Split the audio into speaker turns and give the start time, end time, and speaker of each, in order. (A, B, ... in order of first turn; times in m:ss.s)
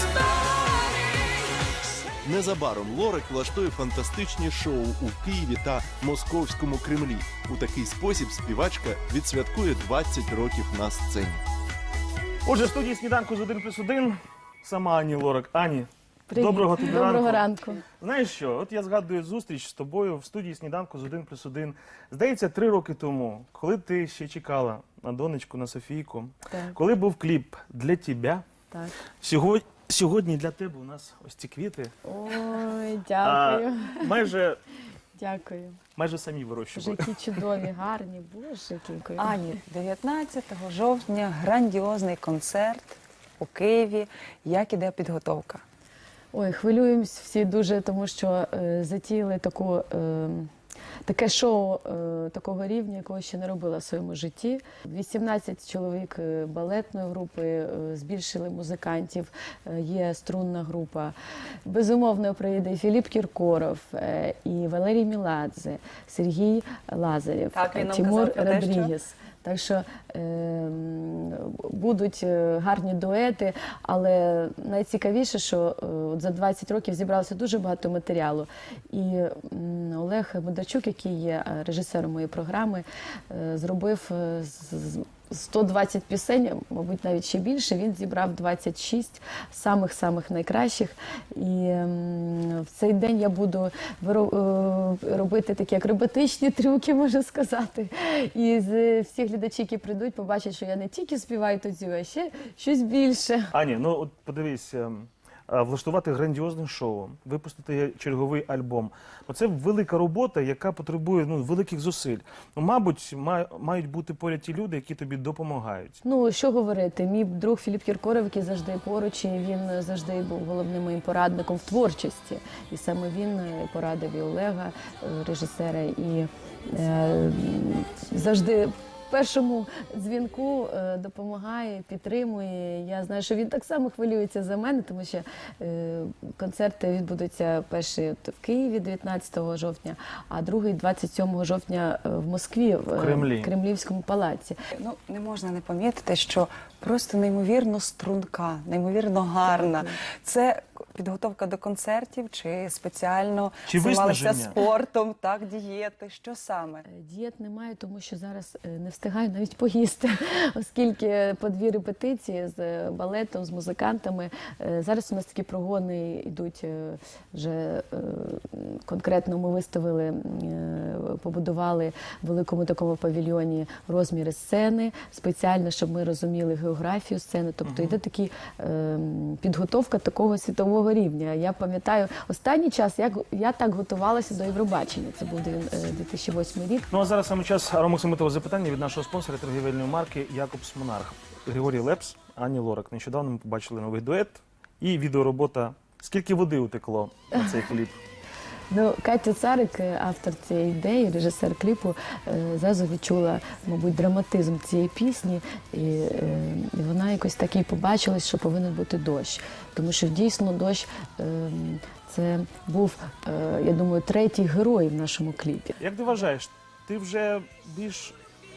0:02.2-0:11.4 A
0:12.5-0:28.5 B
0:16.3-0:17.8 C
0:26.5-0:26.8 C
0:29.2-0:31.9 B
0:32.0-0:34.2 C
0:33.2-0:34.6 B
0:35.2-0:35.8 C
0:36.0-0:37.6 B
0:36.7-0:39.6 C
0:39.2-0:45.6 D
0:46.3-0:50.5 C
0:51.0-1:01.1 C
1:01.7-1:43.5 C
1:07.5-1:08.9 D
1:43.5-1:56.0 B
1:56.0-2:24.6 C
2:23.0-2:23.5 B
2:24.8-2:36.8 D
2:29.5-2:29.9 C
2:33.7-2:34.6 B
2:36.9-3:06.9 C
2:57.6-2:58.0 B
3:06.9-3:18.0 B
3:18.7-3:35.8 C
3:35.8-3:38.2 B